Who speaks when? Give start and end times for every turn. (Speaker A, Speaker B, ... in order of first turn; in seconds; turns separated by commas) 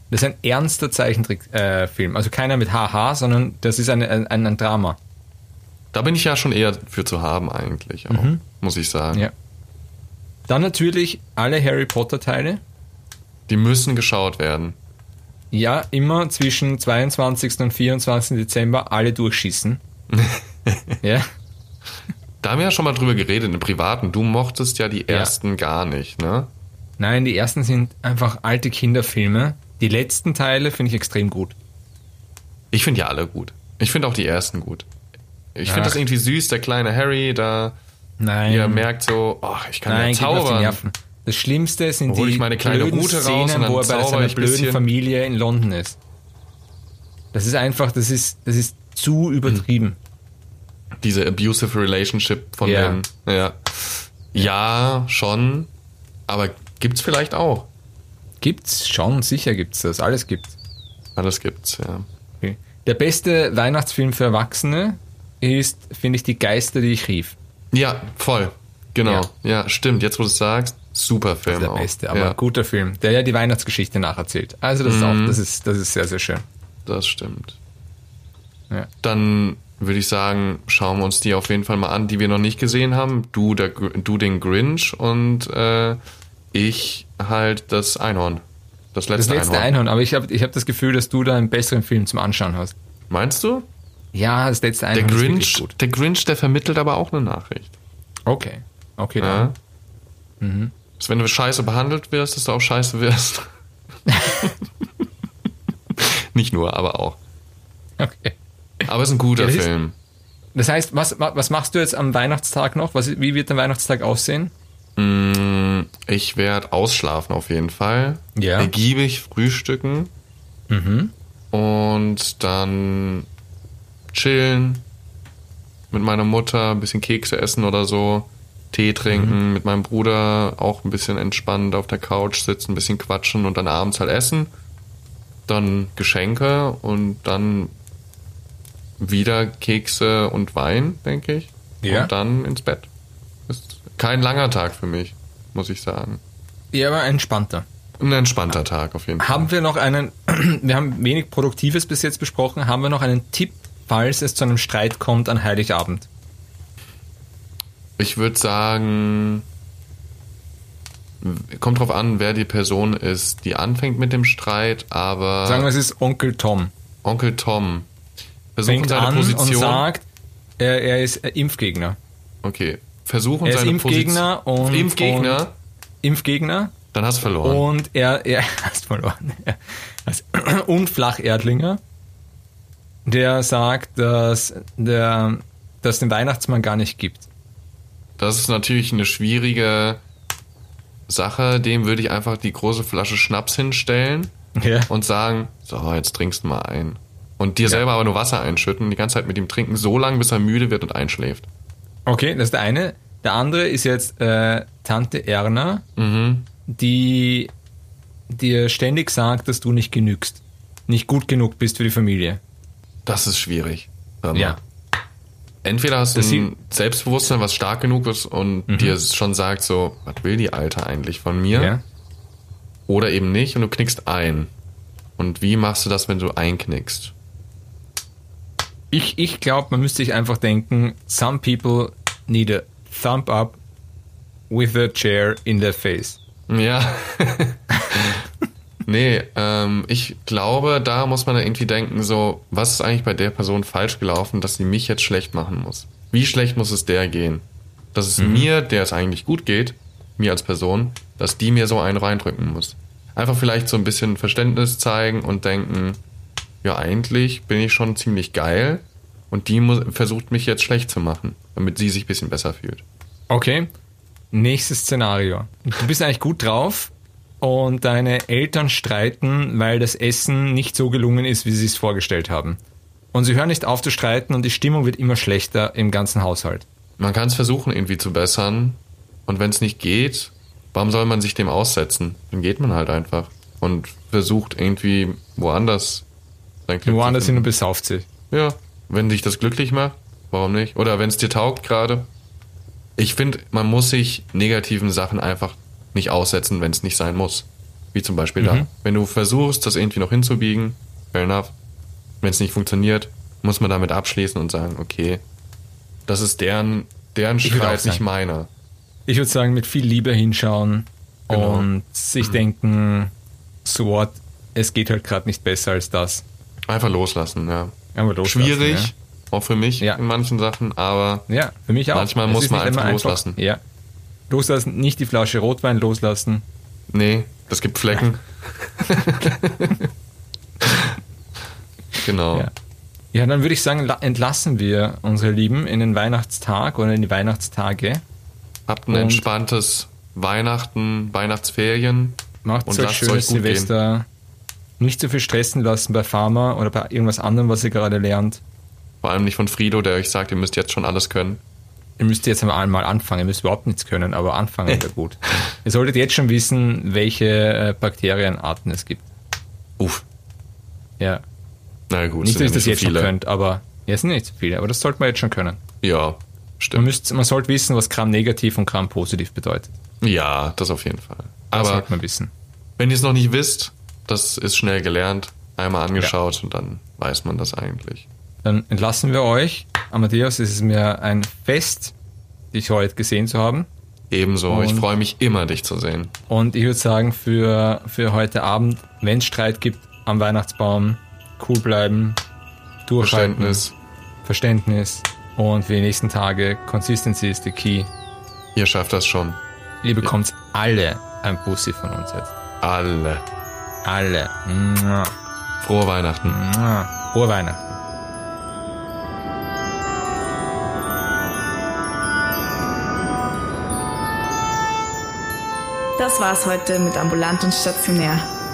Speaker A: 0.1-5.0, Speaker B: 5.9-9.3, Speaker A: 8.1-8.4, Speaker A: 10.5-12.6, Speaker B: 13.5-14.8, Speaker A: 15.5-19.8, Speaker B: 20.1-21.0, Speaker A: 21.0-21.3, Speaker B: 22.4-26.5, Speaker A: 25.1-25.3, Speaker A: 27.0-31.6, Speaker B: 32.7-34.9, Speaker B: 35.5-37.8, Speaker A: 35.7-36.0, Speaker A: 38.2-38.9, Speaker B: 38.5-40.8, Speaker A: 39.9-46.0, Speaker B: 42.1-44.9, Speaker A: 47.3-50.0, Speaker B: 51.0-55.7, Speaker A: 52.6-53.0, Speaker B: 56.3-57.7, Speaker A: 58.4-60.6, Speaker B: 61.2-62.1, Speaker A: 62.4-67.4, Speaker B: 67.7-72.4, Speaker A: 71.5-76.4, Speaker B: 74.8-75.4, Speaker B: 76.9-77.6, Speaker B: 79.0-86.0, Speaker B: 86.5-89.7, Speaker A: 89.2-92.7, Speaker B: 93.1-93.7, Speaker A: 94.1-95.7, Speaker B: 94.9-97.8, Speaker A: 98.3-99.5, Speaker B: 99.2-99.5, Speaker A: 100.4-100.7, Speaker B: 101.0-103.5, Speaker A: 104.1-104.4, Speaker B: 106.0-107.2, Speaker A: 108.0-109.7, Speaker B: 108.9-109.9, Speaker A: 110.5-114.5, Speaker B: 115.0-120.1, Speaker A: 118.4-118.7, Speaker A: 120.7-121.1, Speaker B: 121.5-123.3, Speaker B: 124.1-124.9, Speaker B: 125.9-134.5, Speaker A: 129.1-129.4, Speaker B: 135.5-137.7, Speaker B: 139.0-142.9, Speaker A: 141.8-142.1, Speaker B: 143.5-146.2, Speaker A: 146.7-147.7, Speaker B: 148.0-149.5, Speaker A: 149.2-156.1, Speaker B: 158.0-159.4, Speaker B: 161.2-165.7, Speaker A: 165.4-166.7, Speaker B: 167.0-167.9, Speaker B: 168.6-169.9, Speaker A: 168.7-170.1, Speaker A: 170.6-172.0, Speaker B: 172.4-175.5, Speaker A: 173.4-175.4, Speaker A: 176.0-176.8, Speaker B: 176.9-177.7, Speaker A: 177.4-181.8, Speaker A: 183.1-187.3, Speaker B: 188.2-190.0, Speaker B: 191.1-194.3, Speaker A: 194.6-194.9, Speaker B: 194.9-201.5, Speaker A: 202.1-205.8, Speaker B: 206.0-206.5, Speaker A: 206.7-207.5, Speaker A: 208.3-212.4, Speaker B: 213.1-214.6, Speaker A: 214.3-214.6, Speaker B: 215.6-221.7, Speaker A: 216.2-216.5, Speaker A: 218.7-219.0, Speaker A: 221.5-221.8, Speaker B: 222.9-224.5, Speaker B: 225.2-227.1, Speaker A: 228.9-233.6, Speaker A: 234.5-236.2, Speaker B: 236.5-238.2, Speaker B: 238.9-256.0, Speaker A: 248.2-248.5, Speaker B: 256.6-262.8, Speaker A: 263.3-263.7, Speaker A: 264.3-272.6, Speaker A: 273.1-276.7, Speaker B: 277.0-286.1, Speaker B: 286.7-287.5, Speaker A: 286.9-288.1, Speaker B: 288.3-292.1, Speaker B: 293.0-301.5, Speaker A: 298.4-298.7, Speaker B: 302.2-305.2, Speaker B: 306.1-308.5, Speaker A: 307.4-308.1, Speaker A: 309.1-313.1, Speaker B: 311.3-311.7, Speaker A: 313.6-316.2, Speaker B: 316.7-321.3, Speaker A: 317.9-318.9, Speaker A: 321.3-323.6, Speaker B: 321.9-323.4, Speaker A: 324.3-326.4, Speaker B: 326.9-329.9, Speaker B: 330.6-331.0, Speaker B: 332.0-332.5, Speaker A: 333.1-338.0, Speaker B: 338.7-343.7, Speaker A: 338.9-339.3, Speaker A: 342.4-344.1, Speaker A: 344.8-348.4, Speaker B: 349.0-351.4, Speaker A: 352.0-359.1, Speaker B: 359.8-360.1, Speaker A: 361.0-361.2, Speaker B: 361.9-363.1, Speaker A: 362.2-365.6, Speaker B: 365.8-366.9, Speaker A: 366.7-369.8, Speaker B: 370.0-371.9, Speaker A: 371.5-372.3, Speaker B: 372.8-378.1, Speaker A: 378.4-381.9, Speaker A: 382.5-383.7, Speaker B: 384.1-386.1, Speaker A: 384.5-384.9, Speaker A: 386.3-392.2, Speaker A: 392.9-393.6, Speaker B: 393.0-393.7, Speaker A: 394.2-397.9, Speaker B: 398.6-399.4, Speaker A: 399.8-402.3, Speaker B: 402.6-403.2, Speaker A: 403.8-405.1, Speaker B: 405.6-406.4, Speaker A: 406.2-407.8, Speaker C: 416.0-418.3